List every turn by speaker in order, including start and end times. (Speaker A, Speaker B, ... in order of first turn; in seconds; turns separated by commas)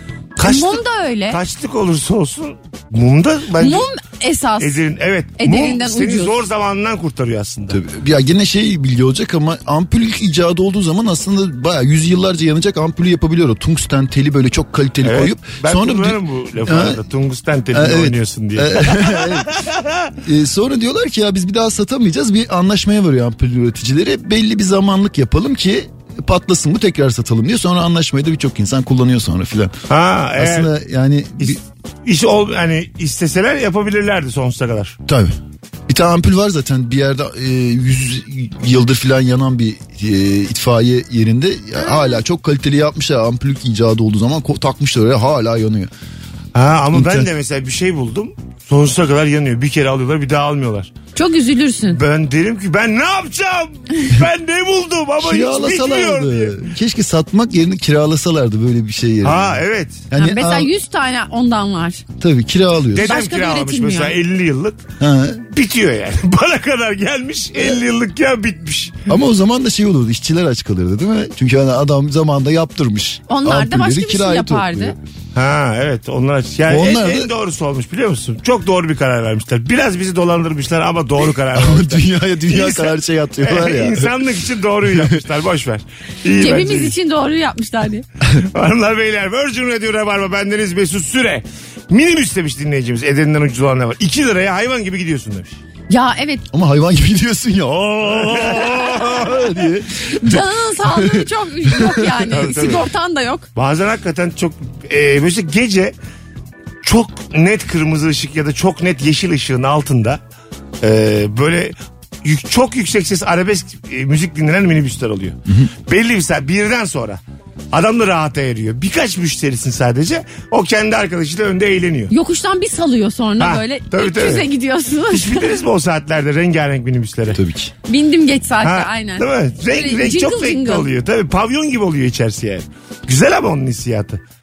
Speaker A: 0.4-3.9, Speaker B: 0.4-1.4, Speaker B: 3.6-4.8, Speaker A: 4.6-7.8, Speaker B: 5.4-6.4, Speaker C: 7.7-17.0, Speaker A: 15.0-20.1, Speaker C: 17.7-19.5, Speaker C: 20.2-29.7, Speaker A: 29.9-30.7, Speaker C: 30.4-31.6, Speaker A: 31.4-35.0, Speaker C: 35.1-35.4, Speaker C: 35.9-45.9, Speaker A: 46.5-50.9, Speaker C: 46.9-47.3, Speaker B: 51.2-52.0, Speaker A: 51.9-56.6, Speaker C: 55.2-60.7, Speaker A: 59.2-60.0, Speaker B: 60.2-62.0, Speaker C: 62.2-63.2, Speaker A: 62.9-64.9, Speaker B: 63.0-64.2, Speaker C: 65.0-65.5, Speaker A: 65.5-69.1, Speaker C: 69.1-75.0, Speaker B: 73.3-75.0, Speaker A: 75.3-86.9, Speaker C: 76.7-77.3, Speaker C: 81.5-84.1, Speaker C: 84.9-85.2, Speaker B: 86.4-88.0, Speaker A: 88.3-95.6, Speaker B: 95.9-96.5, Speaker C: 96.5-102.2, Speaker A: 98.2-99.4, Speaker B: 100.1-103.5, Speaker A: 102.3-102.8, Speaker A: 103.5-105.9, Speaker A: 106.8-110.2, Speaker A: 110.8-117.2, Speaker A: 117.7-122.1, Speaker B: 122.1-125.5, Speaker A: 123.4-124.5, Speaker A: 125.1-127.4, Speaker C: 127.3-127.7, Speaker B: 127.9-130.9, Speaker A: 128.6-134.2